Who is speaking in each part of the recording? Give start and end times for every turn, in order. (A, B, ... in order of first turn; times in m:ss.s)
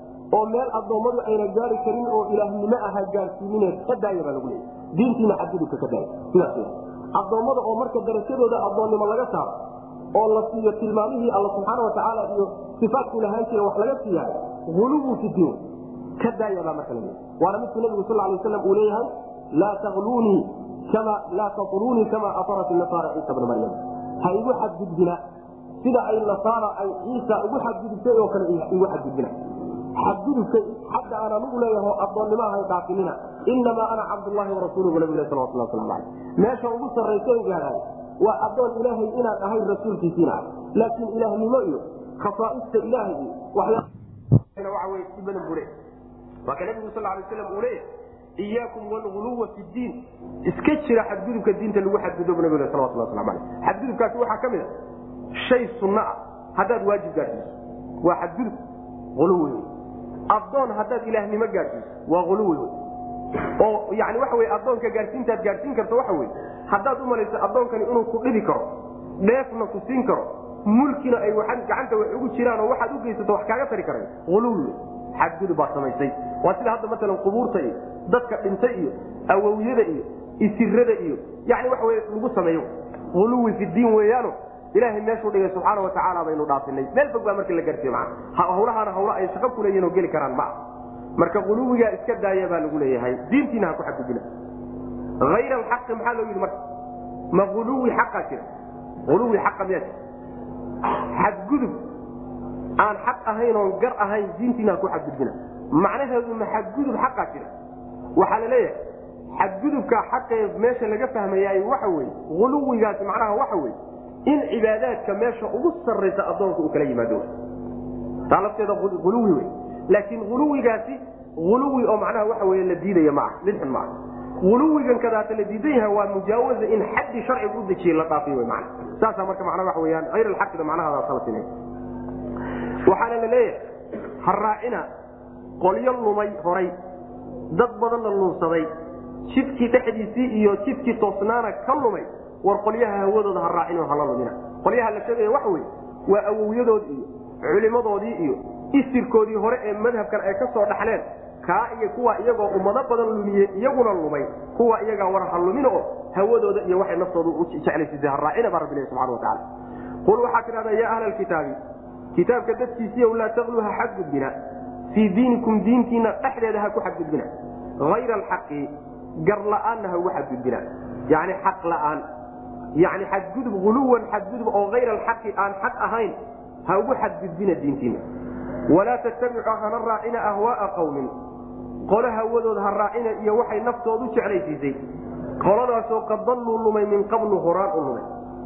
0:00.3-0:09.5 A
0:10.1-0:15.6 A
0:16.2-0:25.2 A
0:25.8-0:29.3 A
0:30.0-0:43.9 A
0:44.6-0:45.7 A
0:46.5-0:47.8 A
0:48.4-0:54.7 A
0:55.3-0:58.6 A
0:59.2-0:59.7 A
1:00.3-1:02.8 A
1:03.6-1:08.7 A
1:09.2-1:30.6 A
1:31.2-1:34.2 A
1:35.2-1:36.6 A
1:37.3-1:38.4 A
1:39.1-1:40.0 A
1:41.1-1:41.8 A
1:42.8-1:47.5 A
1:48.2-1:48.8 A
1:49.3-1:57.3 A
1:58.3-2:11.5 A
2:12.9-2:13.6 A
2:14.2-2:14.9 A
2:15.6-2:16.7 A
2:17.5-2:18.7 A
2:19.3-2:39.4 A
2:40.0-2:41.6 A
2:42.1-2:44.4 A
2:44.9-2:47.3 A
2:47.8-2:52.0 A
2:52.8-2:56.1 A
2:56.7-2:58.0 A
2:58.7-3:01.1 A
3:01.9-3:04.8 A
3:05.4-3:08.1 A